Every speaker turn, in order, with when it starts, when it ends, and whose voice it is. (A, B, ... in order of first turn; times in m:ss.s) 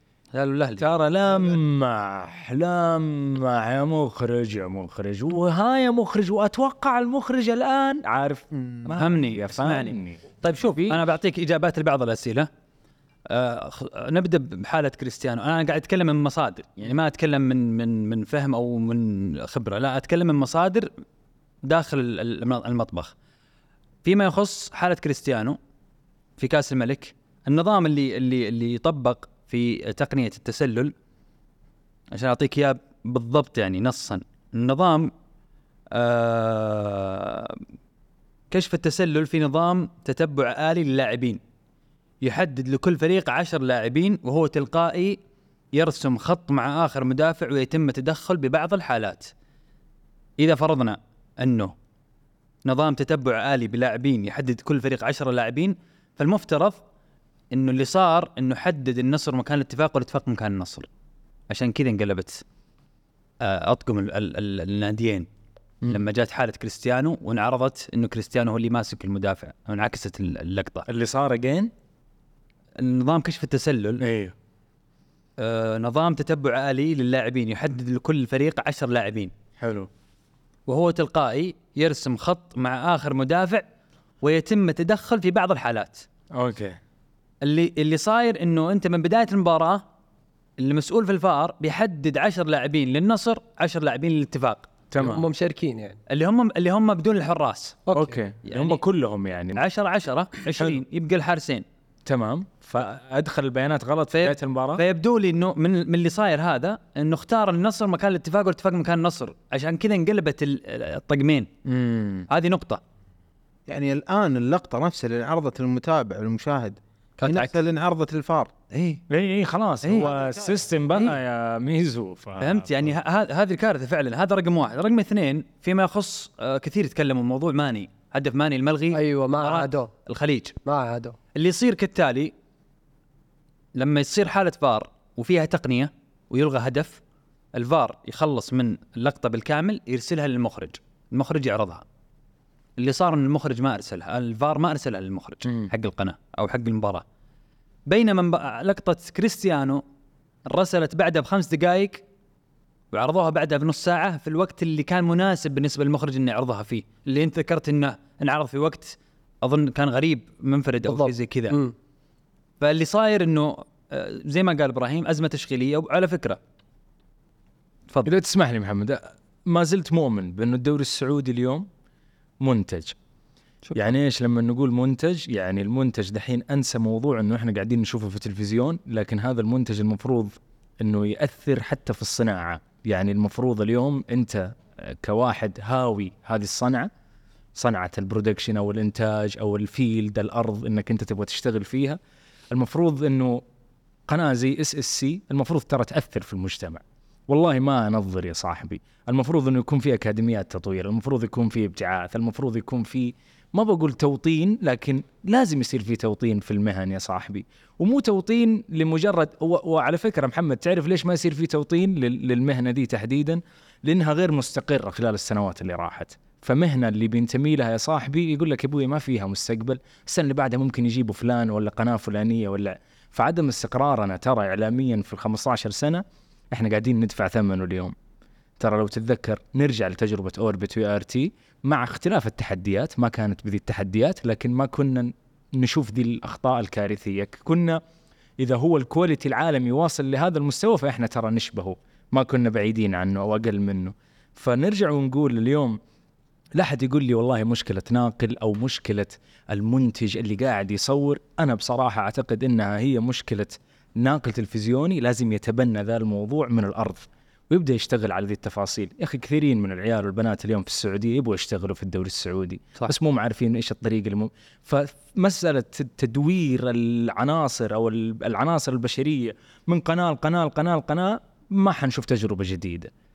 0:00.3-0:00.8 A
0:00.8-0:10.2 B
0:08.5-0:08.9 C
0:09.0-0:12.5 A
0:13.3-0:20.9 A
0:21.6-0:23.1 A
0:24.0-0:25.6 A
0:26.4-0:30.9 A
0:32.1-0:35.1 A
0:35.9-0:37.6 A
0:38.5-0:41.4 A
0:42.2-0:45.2 A
0:45.7-0:49.3 A
0:50.4-0:51.7 A
0:52.6-0:56.8 A
0:57.5-1:00.9 A
1:01.5-1:02.4 A
1:03.4-1:05.3 A
1:05.8-1:10.9 A
1:10.9-1:11.7 B
1:12.8-1:14.0 A
1:14.0-1:14.3 B
1:15.4-1:19.3 A
1:19.6-1:19.9 B
1:20.7-1:23.6 A
1:24.2-1:26.0 A
1:26.3-1:26.8 B
1:27.4-1:29.8 A
1:30.6-1:34.7 A
1:34.9-1:35.2 B
1:35.0-1:36.0 D
1:36.1-1:37.8 A
1:37.9-1:38.1 D
1:37.9-1:39.6 B
1:38.4-1:38.8 A
1:39.6-1:41.6 A
1:42.0-1:44.8 B
1:44.1-1:51.5 A
1:51.7-1:52.2 B
1:52.3-1:52.8 A
1:53.7-1:58.5 C
1:57.2-1:57.5 A
1:58.7-1:59.0 A
1:59.1-2:02.9 B
1:59.8-2:00.1 A
2:00.0-2:00.6 C
2:02.4-2:10.6 A
2:08.9-2:09.9 D
2:10.6-2:11.2 D
2:11.3-2:12.3 A
2:13.7-2:17.0 A
2:17.5-2:21.8 A
2:22.8-2:27.0 A
2:27.9-2:29.8 A
2:30.4-2:32.0 A
2:32.9-2:41.6 A
2:40.9-2:41.7 D
2:42.6-2:46.4 A
2:48.0-2:51.7 B
2:52.4-2:53.0 B
2:53.7-3:06.9 B
3:07.5-3:12.0 B
3:12.5-3:13.4 B
3:14.1-3:47.9 B
3:48.6-3:57.8 B
3:58.4-4:05.8 B
4:06.6-4:32.9 B